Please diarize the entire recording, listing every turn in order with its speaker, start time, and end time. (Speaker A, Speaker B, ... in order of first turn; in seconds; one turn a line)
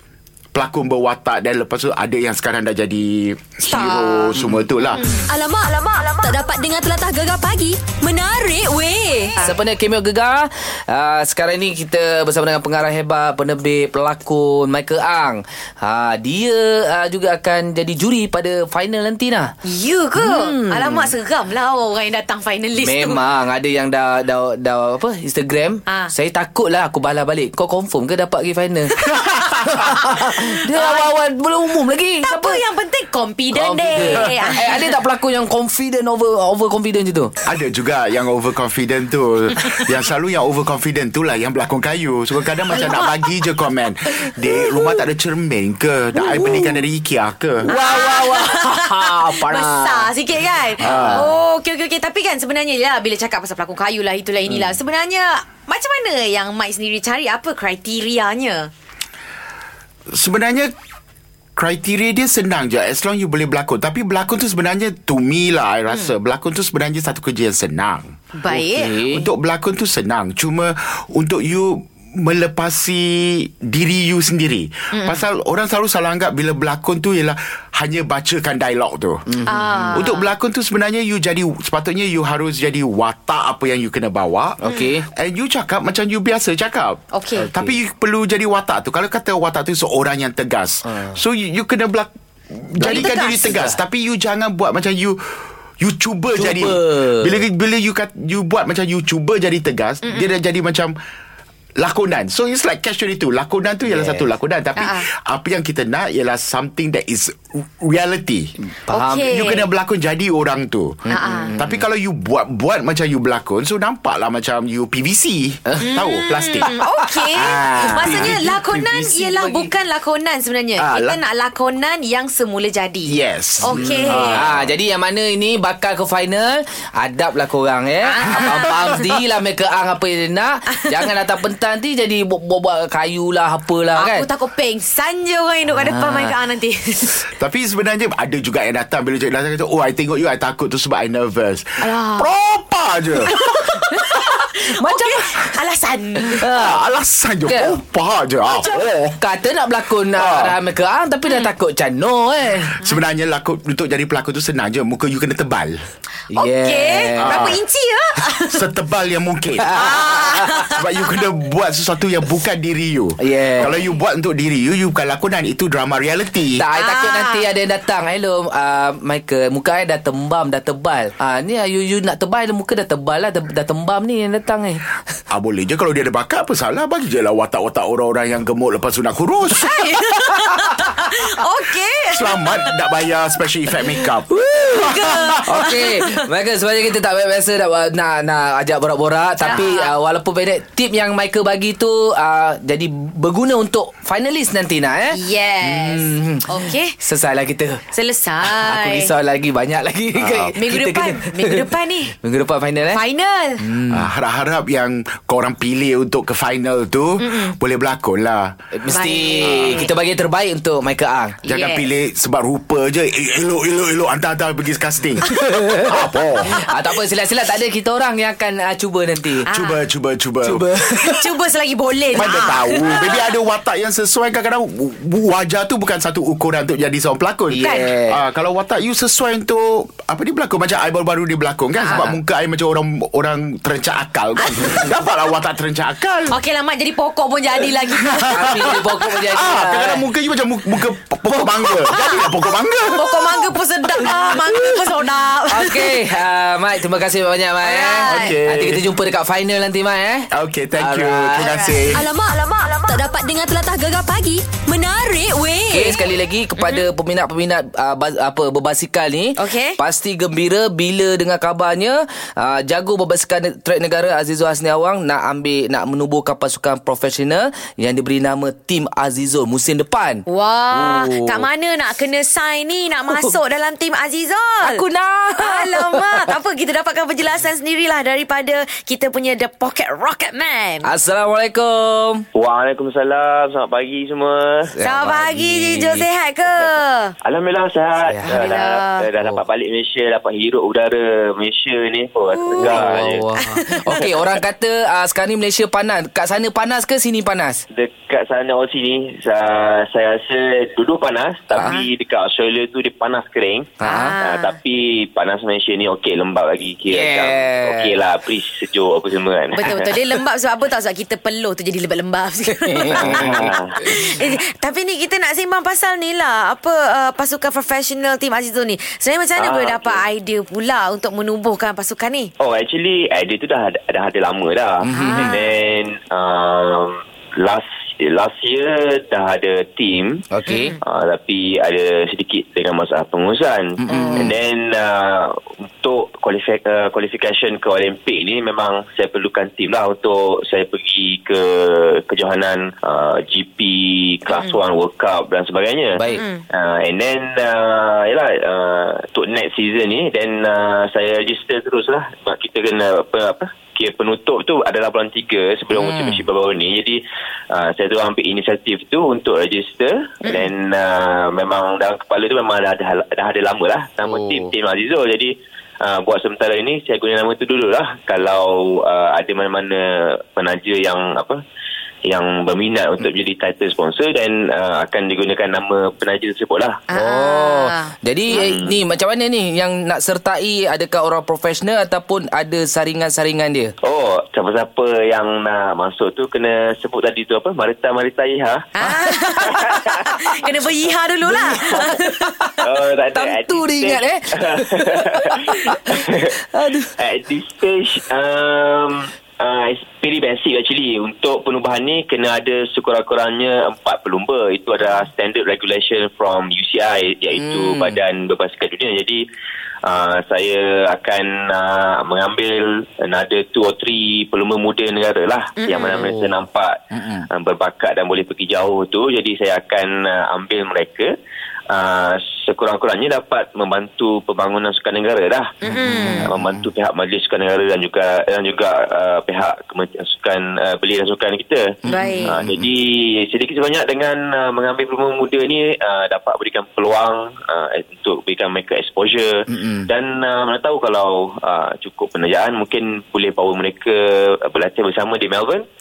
Speaker A: 0.5-5.2
Speaker B: 3.7-4.3
Speaker B: 4.9-5.2
Speaker C: 5.2-9.4
Speaker D: 9.4-19.5
Speaker B: 19.6-23.2
Speaker D: 20.2-21.1
Speaker D: 22.8-29.0
Speaker B: 25.9-26.1
Speaker A: 29.0-29.8
Speaker D: 29.6-32.6
Speaker B: 29.7-31.1
Speaker B: 32.2-34.9
Speaker D: 33.5-37.3
Speaker A: 37.4-47.7
Speaker B: 42.7-43.3
Speaker B: 44.5-44.9
Speaker D: 46.2-46.7
Speaker D: 47.6-50.1
Speaker B: 47.6-58.7
Speaker D: 50.8-51.3
Speaker A: 50.8-51.3
Speaker A: 60.1-60.7
Speaker A: 61.6-68.1
Speaker B: 68.3-68.9
Speaker D: 68.5-69.2
Speaker A: 69.0-79.2
Speaker B: 74.9-75.2
Speaker D: 79.3-80.0
Speaker B: 79.5-80.3
Speaker A: 79.9-84.6
Speaker D: 84.6-85.1
Speaker A: 85.1-95.2
Speaker B: 87.1-87.5
Speaker D: 87.4-87.8
Speaker B: 92.8-93.6
Speaker A: 95.8-101.0
Speaker D: 96.3-97.4
Speaker A: 101.8-108.5
Speaker D: 103.9-104.2
Speaker B: 104.8-105.0
Speaker D: 108.8-109.4
Speaker B: 108.9-109.7
Speaker A: 109.3-116.7
Speaker D: 111.0-111.8
Speaker B: 111.1-111.5
Speaker D: 115.7-116.0
Speaker B: 115.8-124.5
Speaker D: 116.6-119.7
Speaker A: 117.3-118.6
Speaker A: 120.8-121.2
Speaker A: 123.1-124.7
Speaker D: 123.7-134.2
Speaker B: 128.0-129.0
Speaker B: 133.9-137.2
Speaker D: 135.8-136.3
Speaker A: 137.3-144.2
Speaker B: 141.8-142.3
Speaker B: 143.3-146.4
Speaker D: 144.7-145.3
Speaker D: 146.3-146.8
Speaker A: 146.4-149.1
Speaker D: 147.5-147.8
Speaker D: 148.6-152.8
Speaker A: 150.1-150.6
Speaker A: 152.8-155.8
Speaker D: 156.3-157.5
Speaker B: 156.3-158.6
Speaker A: 157.2-157.6
Speaker A: 158.3-166.6
Speaker D: 159.6-160.7
Speaker B: 159.7-160.8
Speaker D: 163.2-163.7
Speaker D: 166.6-174.8
Speaker B: 166.7-167.4
Speaker A: 175.3-180.4
Speaker B: 179.6-182.8
Speaker A: 182.1-185.8
Speaker D: 184.3-184.8
Speaker B: 184.7-186.1
Speaker D: 185.4-197.8
Speaker B: 189.4-189.9
Speaker B: 195.1-196.9
Speaker B: 197.9-199.1
Speaker D: 198.4-203.0
Speaker B: 200.3-202.1
Speaker B: 202.9-203.6
Speaker D: 203.6-204.1
Speaker A: 203.9-208.5
Speaker B: 207.2-207.6
Speaker D: 208.7-211.4
Speaker B: 208.9-209.9
Speaker A: 209.5-209.9
Speaker A: 211.4-216.6
Speaker B: 211.5-211.8
Speaker D: 215.4-215.9
Speaker D: 216.5-219.5
Speaker A: 219.5-220.7
Speaker B: 219.5-219.8
Speaker D: 220.4-221.2
Speaker B: 221.0-223.2
Speaker A: 222.1-236.4
Speaker D: 227.5-228.2
Speaker B: 227.6-227.9
Speaker B: 234.4-234.8
Speaker B: 236.3-238.8
Speaker A: 237.9-244.6
Speaker D: 238.3-240.0
Speaker B: 241.8-242.3
Speaker B: 242.9-246.0
Speaker D: 245.5-251.5
Speaker B: 247.6-248.3
Speaker A: 248.0-248.8
Speaker A: 250.3-252.0
Speaker B: 251.4-251.8
Speaker C: 251.9-256.0
Speaker D: 255.7-271.4
Speaker B: 256.6-256.9
Speaker B: 259.4-259.8
Speaker B: 270.3-274.8
Speaker D: 274.6-276.2
Speaker B: 275.4-280.9
Speaker D: 280.8-282.2
Speaker E: 282.3-284.7
Speaker D: 284.7-286.1
Speaker B: 284.8-287.1
Speaker E: 287.2-293.2
Speaker D: 288.1-288.4
Speaker B: 288.3-289.1
Speaker B: 292.3-292.9
Speaker D: 292.6-297.6
Speaker B: 293.4-294.1
Speaker E: 297.7-309.8
Speaker B: 301.6-301.9
Speaker D: 303.8-304.1
Speaker B: 303.8-304.5
Speaker D: 306.9-307.9
Speaker B: 309.5-322.3
Speaker D: 312.6-313.9
Speaker E: 313.0-313.8
Speaker E: 319.4-320.0
Speaker E: 322.4-330.2
Speaker D: 324.8-325.4
Speaker B: 324.9-325.5
Speaker D: 330.3-330.7
Speaker B: 330.5-330.8
Speaker E: 330.8-346.0
Speaker D: 333.8-334.3
Speaker B: 333.9-334.3
Speaker B: 344.3-344.6
Speaker D: 346.0-346.2
Speaker B: 346.1-346.4
Speaker E: 346.5-371.4
Speaker D: 355.7-356.2
Speaker D: 364.0-364.5
Speaker E: 372.1-376.8
Speaker B: 376.9-378.4
Speaker D: 376.9-383.7
Speaker E: 378.3-378.7
Speaker E: 383.8-388.7
Speaker B: 388.8-392.6
Speaker D: 388.9-390.2
Speaker E: 389.5-389.9
Speaker D: 391.2-392.6
Speaker E: 392.6-396.3
Speaker D: 393.1-396.9
Speaker E: 397.0-409.2
Speaker D: 407.4-408.0
Speaker E: 409.8-416.8
Speaker B: 415.6-416.0
Speaker D: 415.8-416.3
Speaker D: 416.9-417.3
Speaker E: 417.3-421.1
Speaker E: 421.7-425.5
Speaker D: 425.6-426.6
Speaker B: 425.6-426.3
Speaker E: 426.2-431.7
Speaker D: 431.8-432.6
Speaker B: 431.9-432.4
Speaker E: 432.2-445.6
Speaker D: 439.5-439.9